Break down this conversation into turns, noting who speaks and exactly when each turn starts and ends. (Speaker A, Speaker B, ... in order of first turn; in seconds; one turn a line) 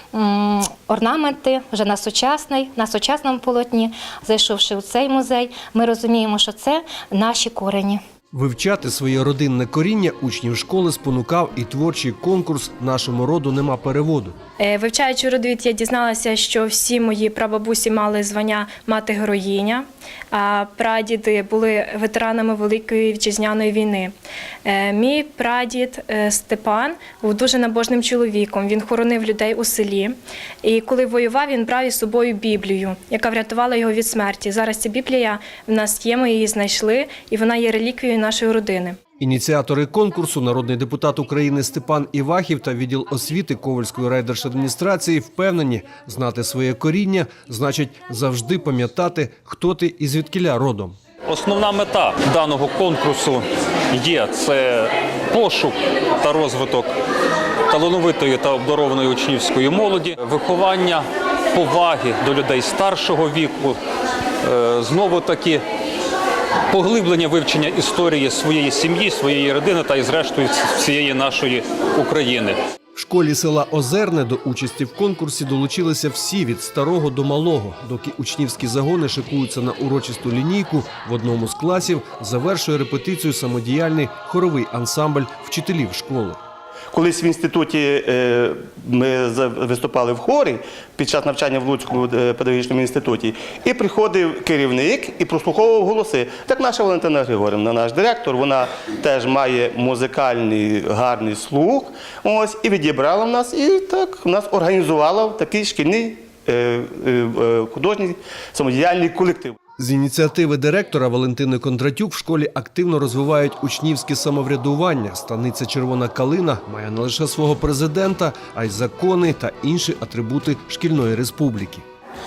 Speaker A: 0.1-8.0
Speaker B: 8.3-14.4
Speaker C: 14.6-24.1
Speaker C: 24.6-39.0
Speaker B: 39.2-51.0
Speaker D: 51.3-56.9
Speaker D: 57.7-63.8
Speaker D: 64.4-65.6
Speaker D: 66.7-72.6
Speaker B: 73.0-86.4
Speaker E: 86.9-109.6
Speaker B: 109.8-121.8